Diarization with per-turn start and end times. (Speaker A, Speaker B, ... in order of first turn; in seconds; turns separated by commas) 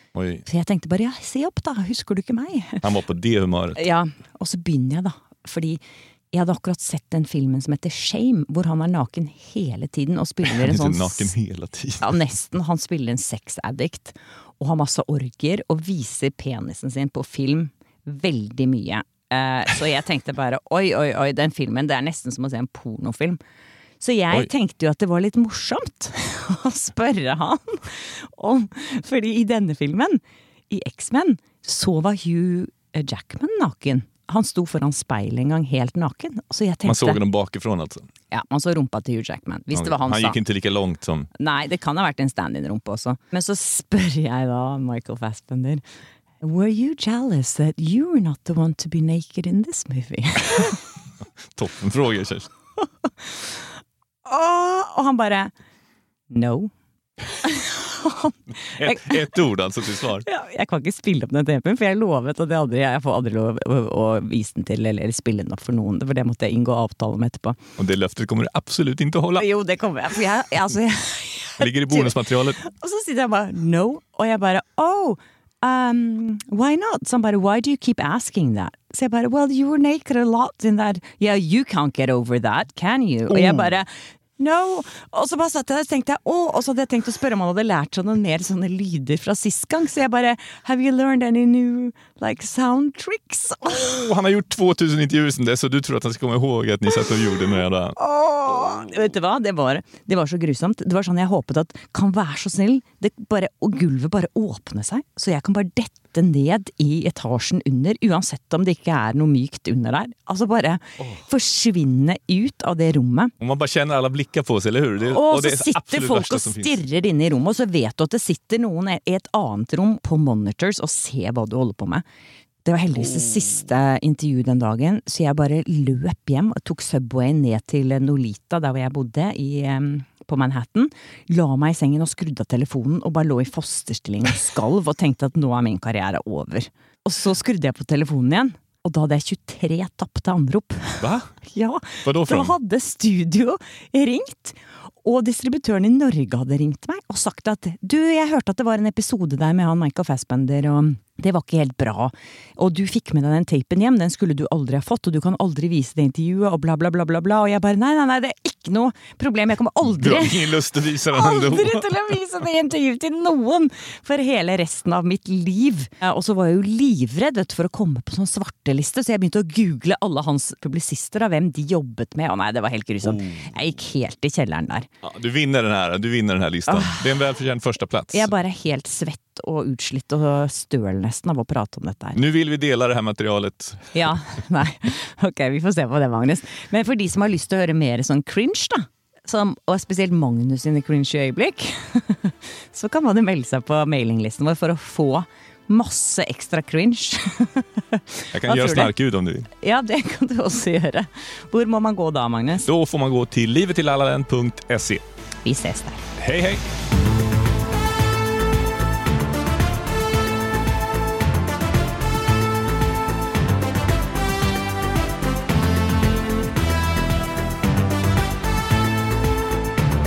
Speaker A: 0.1-0.4, Speaker B: 0.5-2.8, Speaker A: 2.8-3.8, Speaker B: 3.8-5.8, Speaker B: 6.3-11.3, Speaker A: 10.5-12.2, Speaker B: 12.0-23.4, Speaker B: 24.0-37.2, Speaker A: 36.9-38.1, Speaker B: 38.3-40.4, Speaker A: 39.7-41.3, Speaker B: 41.4-45.8, Speaker B: 46.4-50.8, Speaker A: 51.5-52.5, Speaker B: 53.0-53.6, Speaker B: 54.2-55.5, Speaker B: 56.3-56.7, Speaker B: 57.3-59.2, Speaker A: 58.8-60.2, Speaker B: 60.2-67.6, Speaker A: 67.8-69.5, Speaker B: 69.4-94.0, Speaker A: 71.6-72.6, Speaker A: 83.3-83.7, Speaker A: 93.7-98.0, Speaker B: 98.0-113.3, Speaker A: 113.4-116.8, Speaker B: 115.0-122.0, Speaker B: 122.7-174.9, Speaker A: 141.0-141.3, Speaker A: 142.0-142.6, Speaker A: 159.9-161.9, Speaker A: 173.1-173.5, Speaker A: 175.0-178.3, Speaker B: 176.7-177.1, Speaker B: 178.1-182.2, Speaker A: 182.2-183.9, Speaker B: 183.9-198.9, Speaker A: 198.3-199.5, Speaker B: 199.6-202.7, Speaker A: 202.6-205.0, Speaker B: 205.4-206.0, Speaker A: 206.2-206.6